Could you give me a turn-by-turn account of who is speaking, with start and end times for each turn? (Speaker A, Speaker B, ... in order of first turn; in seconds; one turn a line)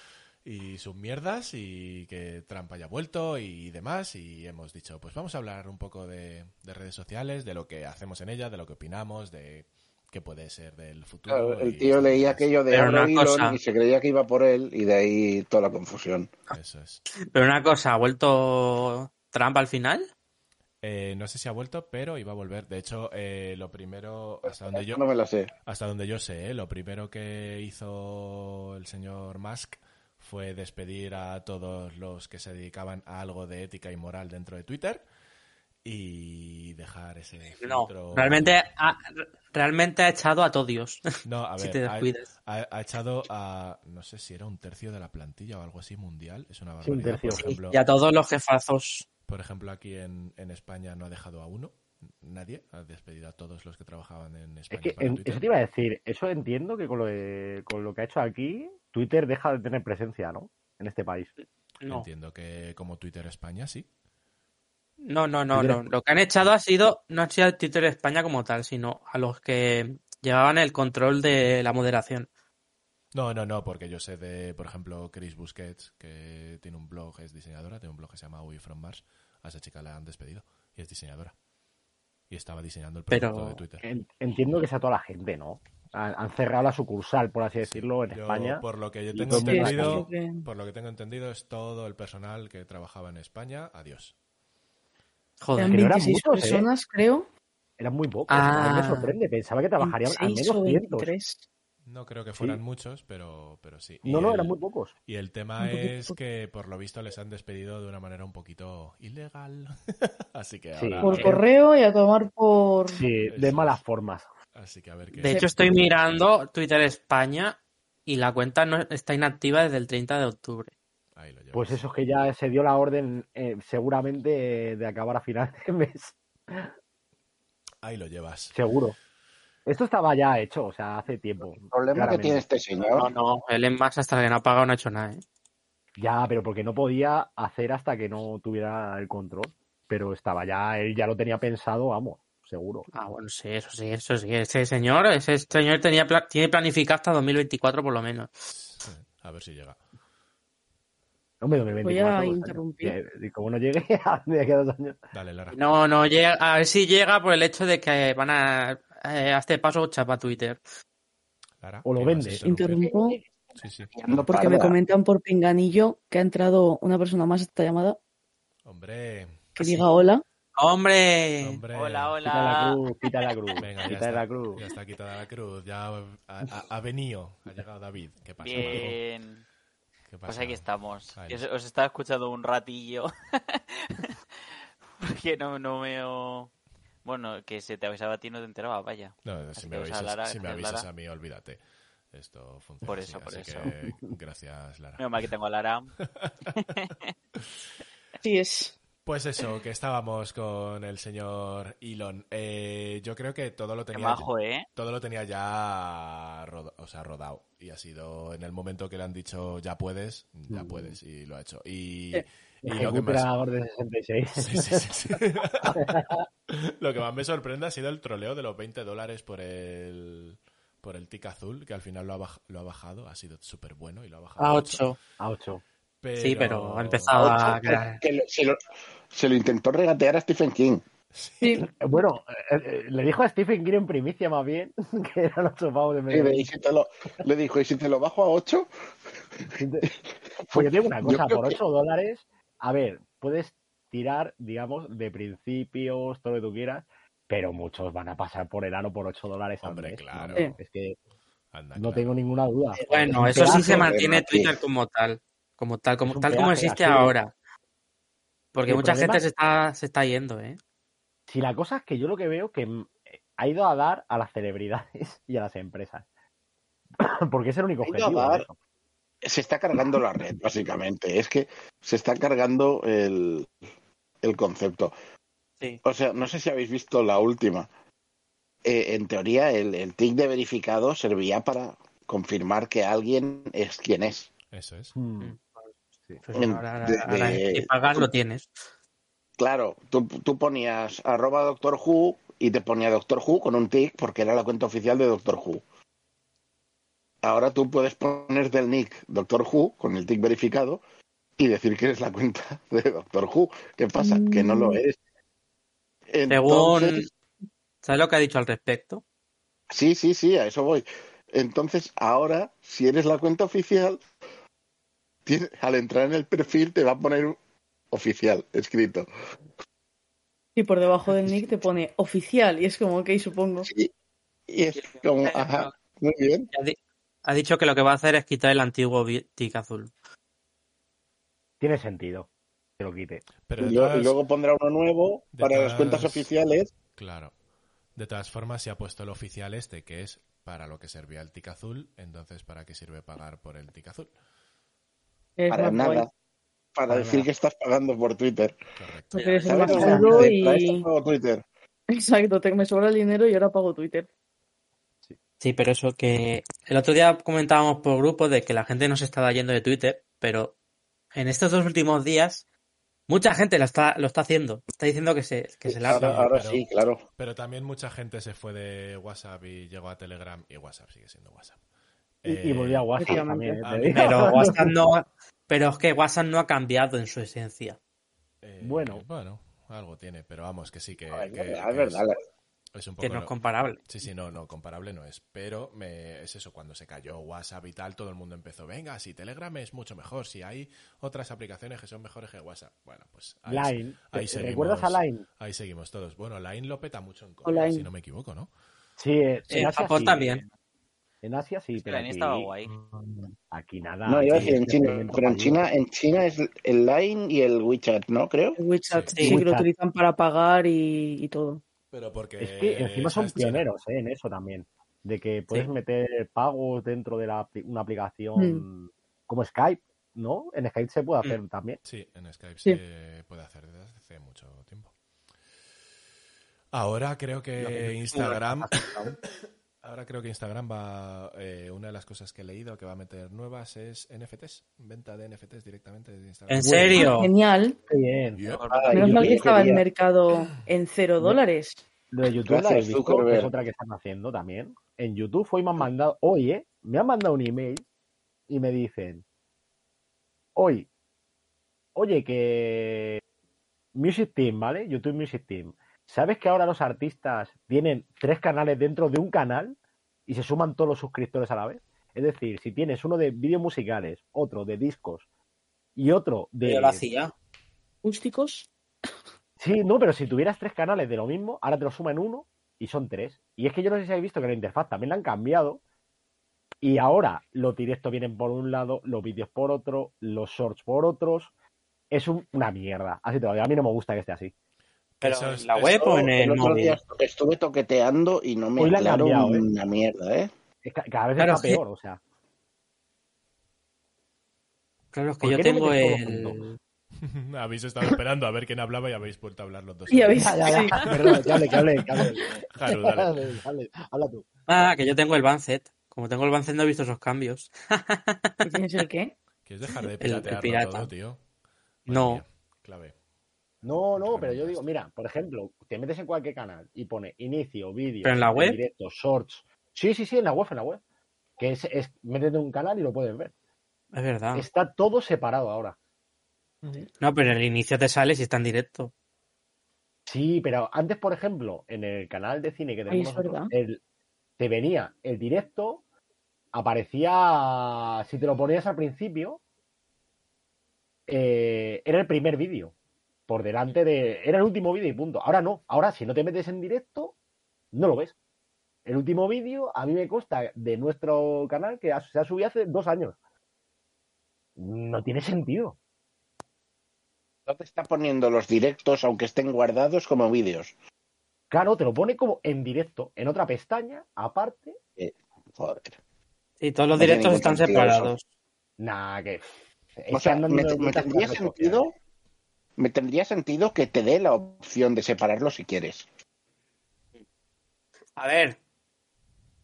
Speaker A: 0.4-12.5
Speaker B: 11.3-16.3
Speaker C: 12.7-13.6
Speaker A: 16.5-17.0
Speaker C: 17.3-20.1
Speaker A: 20.8-25.0
Speaker B: 24.5-25.5
Speaker A: 25.6-35.0
Speaker A: 35.8-38.7
Speaker C: 37.6-41.1
Speaker A: 41.2-47.8
Speaker C: 41.6-42.3
Speaker D: 46.8-47.5
Speaker C: 47.3-49.0
Speaker A: 49.3-55.4
Speaker D: 54.7-61.3
Speaker A: 61.8-63.9
Speaker C: 65.0-72.3
Speaker D: 65.5-65.8
Speaker A: 73.1-81.3
Speaker A: 82.3-83.8
Speaker C: 83.1-83.6
Speaker D: 83.8-88.6
Speaker A: 87.6-94.1
Speaker D: 89.1-90.0
Speaker E: 89.3-90.4
Speaker C: 95.4-95.9
Speaker E: 95.5-97.3
Speaker D: 95.6-96.7
Speaker D: 97.8-101.1
Speaker C: 98.3-99.1
Speaker E: 99.8-101.4
Speaker A: 101.9-104.5
Speaker D: 104.0-104.9
Speaker A: 105.1-111.4
Speaker E: 105.6-106.1
Speaker D: 110.8-111.4
Speaker E: 111.0-113.0
Speaker D: 112.9-114.3
Speaker A: 113.2-113.8
Speaker A: 114.5-116.2
Speaker C: 115.2-120.7
Speaker A: 121.2-121.8
Speaker D: 121.5-126.7
Speaker A: 127.8-128.6
Speaker D: 128.5-128.9
Speaker D: 129.7-132.4
Speaker B: 131.6-133.1
Speaker C: 132.9-135.2
Speaker D: 136.0-142.9
Speaker C: 142.9-148.3
Speaker A: 148.5-149.8
Speaker D: 151.4-155.0
Speaker E: 151.8-152.9
Speaker A: 155.1-155.6
Speaker C: 155.5-160.6
Speaker A: 161.6-162.9
Speaker D: 161.8-162.5
Speaker E: 162.4-163.2
Speaker A: 163.6-163.9
Speaker C: 164.0-164.3
Speaker B: 164.1-164.8
Speaker E: 164.3-168.0
Speaker A: 168.6-169.8
Speaker E: 169.6-170.2
Speaker C: 170.5-171.6
Speaker A: 171.4-172.2
Speaker F: 171.7-172.8
Speaker D: 172.2-174.6
Speaker A: 173.6-179.0
Speaker F: 178.4-179.4
Speaker D: 178.6-178.9
Speaker A: 180.1-181.5
Speaker F: 180.3-184.1
Speaker F: 185.0-186.5
Speaker F: 187.0-190.9
Speaker A: 189.2-191.6
Speaker A: 192.1-195.1
Speaker F: 192.8-193.7
Speaker F: 195.0-195.9
Speaker F: 196.5-197.1
Speaker E: 198.2-198.8
Speaker A: 199.0-213.3
Speaker F: 203.9-204.7
Speaker D: 210.5-211.0
Speaker D: 212.6-214.9
Speaker A: 214.4-224.9
Speaker D: 215.7-216.2
Speaker C: 224.4-225.0
Speaker D: 225.2-225.6
Speaker A: 226.0-227.2
Speaker C: 226.2-228.0
Speaker B: 227.1-228.6
Speaker B: 229.1-230.8
Speaker A: 231.1-231.5
Speaker E: 231.4-231.7
Speaker D: 231.6-236.5
Speaker B: 236.1-238.7
Speaker D: 239.5-239.9
Speaker B: 239.8-241.6
Speaker D: 240.5-251.0
Speaker A: 249.6-250.6
Speaker A: 251.5-252.1
Speaker D: 251.8-253.6
Speaker C: 252.8-257.3
Speaker B: 253.3-254.6
Speaker D: 256.0-257.1
Speaker C: 258.5-260.6
Speaker D: 258.7-259.2
Speaker D: 261.3-266.0
Speaker D: 267.0-268.5
Speaker B: 267.8-268.5
Speaker B: 269.2-273.5
Speaker B: 274.2-274.9
Speaker B: 275.8-277.7
Speaker B: 278.6-284.3
Speaker A: 284.5-284.9
Speaker D: 284.9-285.4
Speaker C: 285.2-288.5
Speaker B: 286.3-288.1
Speaker B: 289.4-295.6
Speaker B: 297.2-300.8
Speaker B: 301.4-305.0
Speaker E: 304.0-304.8
Speaker B: 306.1-307.0
Speaker C: 306.3-307.1
Speaker C: 307.8-309.0
Speaker B: 309.7-314.0
Speaker B: 315.3-317.4
Speaker B: 317.9-319.1
Speaker E: 320.6-323.7
Speaker B: 323.6-323.9
Speaker B: 324.5-326.5
Speaker C: 324.8-325.7
Speaker C: 326.5-329.9
Speaker D: 331.6-333.2
Speaker A: 333.5-334.2
Speaker B: 333.6-336.7
Speaker A: 335.3-336.3
Speaker A: 336.9-337.3
Speaker A: 338.0-344.1
Speaker E: 345.4-346.1
Speaker B: 345.5-346.1
Speaker B: 346.8-348.5
Speaker D: 346.9-347.3
Speaker A: 348.8-350.0
Speaker E: 349.1-350.9
Speaker B: 349.4-351.4
Speaker D: 349.8-350.1
Speaker E: 351.9-354.1
Speaker C: 355.4-360.5
Speaker C: 361.1-362.4
Speaker C: 363.1-366.3
Speaker B: 365.7-367.0
Speaker A: 365.9-366.6
Speaker A: 367.2-371.6
Speaker A: 372.2-372.9
Speaker D: 372.2-374.7
Speaker E: 373.0-373.7
Speaker A: 373.6-374.7
Speaker C: 373.9-377.8
Speaker A: 378.4-382.0
Speaker D: 378.6-379.0
Speaker B: 381.1-382.1
Speaker A: 382.8-383.3
Speaker C: 383.0-383.8
Speaker A: 383.9-398.5
Speaker D: 393.5-395.2
Speaker E: 397.4-397.9
Speaker D: 399.0-400.4
Speaker C: 399.5-400.5
Speaker D: 401.2-405.7
Speaker F: 401.8-402.7
Speaker B: 404.1-408.6
Speaker E: 408.6-411.6
Speaker A: 408.9-409.2
Speaker C: 409.1-409.4
Speaker D: 409.2-409.7
Speaker A: 411.9-413.6
Speaker D: 412.4-421.8
Speaker E: 418.4-418.6
Speaker A: 421.8-424.9
Speaker A: 426.7-428.9
Speaker C: 428.1-428.5
Speaker A: 429.8-437.1
Speaker C: 436.5-437.3
Speaker E: 436.9-437.8
Speaker D: 437.9-439.8
Speaker F: 438.5-439.4
Speaker B: 438.6-439.8
Speaker E: 438.9-441.8
Speaker D: 442.1-447.8
Speaker B: 442.5-443.5
Speaker D: 448.5-449.2
Speaker D: 450.6-450.9
Speaker D: 451.9-453.2
Speaker D: 453.9-465.2
Speaker D: 466.0-467.1
Speaker C: 466.6-467.3
Speaker E: 468.0-468.7
Speaker D: 469.6-475.8
Speaker D: 476.8-481.5
Speaker D: 482.1-484.5
Speaker A: 485.2-486.0
Speaker C: 485.2-487.0
Speaker B: 485.9-490.5
Speaker D: 488.8-489.6
Speaker D: 490.8-492.2
Speaker C: 491.4-491.8
Speaker C: 495.1-496.8
Speaker D: 495.4-496.6
Speaker A: 497.2-503.6
Speaker E: 500.1-501.8
Speaker D: 500.4-504.5
Speaker C: 504.7-508.8
Speaker E: 508.7-509.3
Speaker A: 509.6-511.4
Speaker C: 510.2-511.1
Speaker A: 512.0-513.1
Speaker C: 512.1-512.4
Speaker D: 513.8-521.0
Speaker A: 514.1-514.8
Speaker C: 518.2-518.8
Speaker D: 521.6-523.5
Speaker C: 524.1-524.6
Speaker D: 524.5-526.0
Speaker C: 527.2-529.1
Speaker D: 530.2-534.0
Speaker E: 533.1-533.7
Speaker D: 534.6-536.0
Speaker D: 536.7-539.6
Speaker D: 541.3-542.9
Speaker D: 543.5-547.3
Speaker D: 547.9-548.3
Speaker D: 549.0-553.4
Speaker D: 554.8-556.0
Speaker B: 557.7-560.9
Speaker D: 561.7-565.0
Speaker B: 565.2-566.2
Speaker C: 566.8-568.4
Speaker B: 567.1-568.3
Speaker D: 569.0-572.0
Speaker B: 570.3-572.1
Speaker B: 573.0-576.3
Speaker C: 578.4-578.8